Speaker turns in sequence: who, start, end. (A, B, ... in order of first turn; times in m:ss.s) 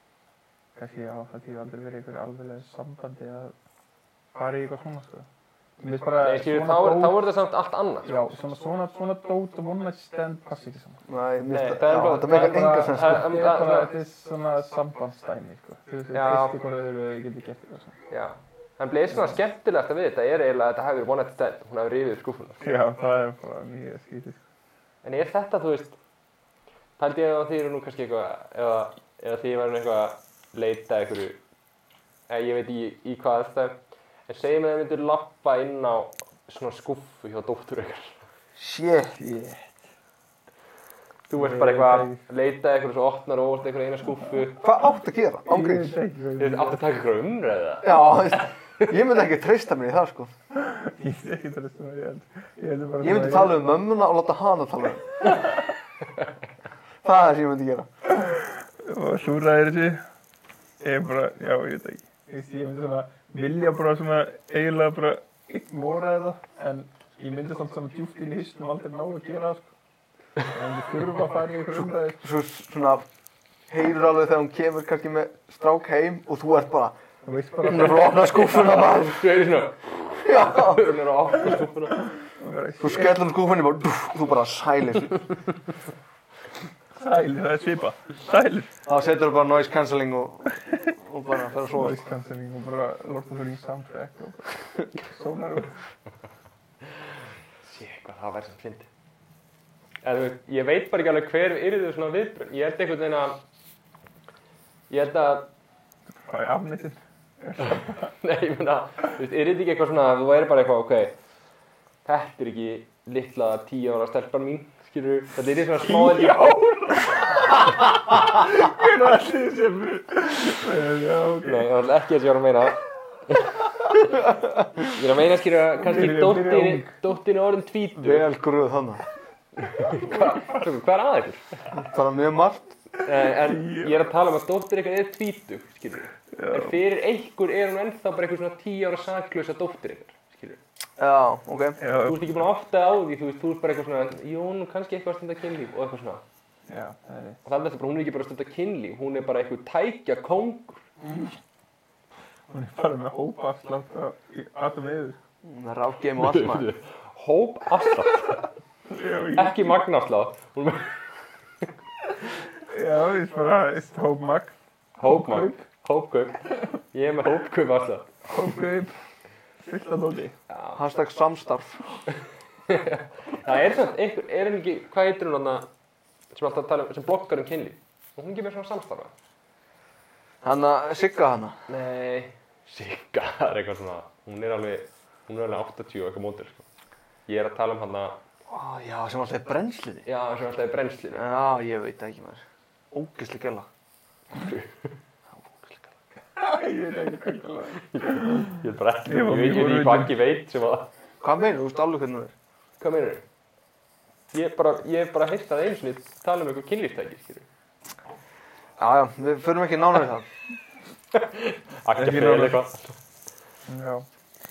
0:00.8-0:03.6 A
0:04.3-0:05.3 A
0:05.8-0:07.2 A
0:06.2-0:08.1 B
0:08.0-0:11.0 A
0:11.1-0:13.3 C
0:11.5-0:13.9 B
0:12.2-0:18.0 A
0:16.1-0:16.6 B
0:18.1-0:22.6 B
0:19.1-0:19.4 A
0:22.6-0:24.4 A
0:25.0-0:26.0 B
0:27.0-0:31.4 B
0:32.3-0:38.2 B
0:38.6-0:39.2 C
0:39.1-0:39.9 A
0:41.3-0:44.6 B
0:41.3-0:42.2 A
0:44.6-0:45.9 C
0:45.4-0:46.8 A
0:46.4-0:48.9 B
0:47.8-0:50.3 C
0:50.5-0:53.7 A
0:53.0-0:55.3 C
0:57.0-0:57.9 C
0:58.1-1:00.0 A
1:00.8-1:09.7 A
1:10.4-1:12.3 A
1:12.2-1:13.0 C
1:13.7-1:17.0 C
1:17.2-1:18.6 A
1:17.6-1:19.2 C
1:18.0-1:22.0 B
1:20.2-1:20.9 C
1:21.4-1:23.2 A
1:22.8-1:25.3 C
1:27.0-1:28.7 A
1:28.9-1:32.0 C
1:31.7-1:35.8 A
1:37.6-1:38.9 B
1:40.0-1:43.4 B
1:44.9-1:45.5 B
1:46.2-1:48.1 A
1:47.6-1:51.2 B
1:52.0-1:56.5 B
1:55.8-2:01.7 A
2:01.4-2:04.1 B
2:04.8-2:08.2 B
2:05.8-2:07.0 A
2:08.0-2:09.0 C
2:09.6-2:11.4 B
2:09.8-2:10.7 A
2:11.7-2:12.8 C
2:13.0-2:20.6 B
2:13.2-2:14.0 A
2:16.3-2:16.8 A
2:21.0-2:21.8 C
2:21.8-2:22.3 A
2:22.0-2:26.2 B
2:26.7-2:27.4 A
2:27.4-2:30.8 B
2:31.0-2:31.4 A
2:32.5-2:35.2 A
2:35.4-2:36.7 C
2:36.2-2:38.5 B
2:38.9-2:39.8 A
2:39.4-2:40.9 B
2:42.6-2:45.6 A
2:45.0-2:48.1 B
2:48.2-2:48.9 A
2:49.6-2:50.4 A
2:50.5-2:50.8 B
2:50.8-2:51.9 C
2:52.7-2:55.7 B
2:56.3-2:59.1 B
3:00.4-3:01.6 C
3:01.7-3:06.6 B
3:07.3-3:08.2 B
3:08.5-3:10.1 C
3:10.1-3:11.2 B
3:11.2-3:13.7 C
3:14.3-3:14.9 B
3:15.4-3:15.8 C
3:16.4-3:20.1 A
3:17.8-3:20.9 B
3:21.2-3:22.3 C
3:22.8-3:23.2 B
3:24.3-3:27.4 B
3:28.8-3:30.3 C
3:31.1-3:32.9 B
3:32.0-3:32.6 A
3:33.6-3:34.1 A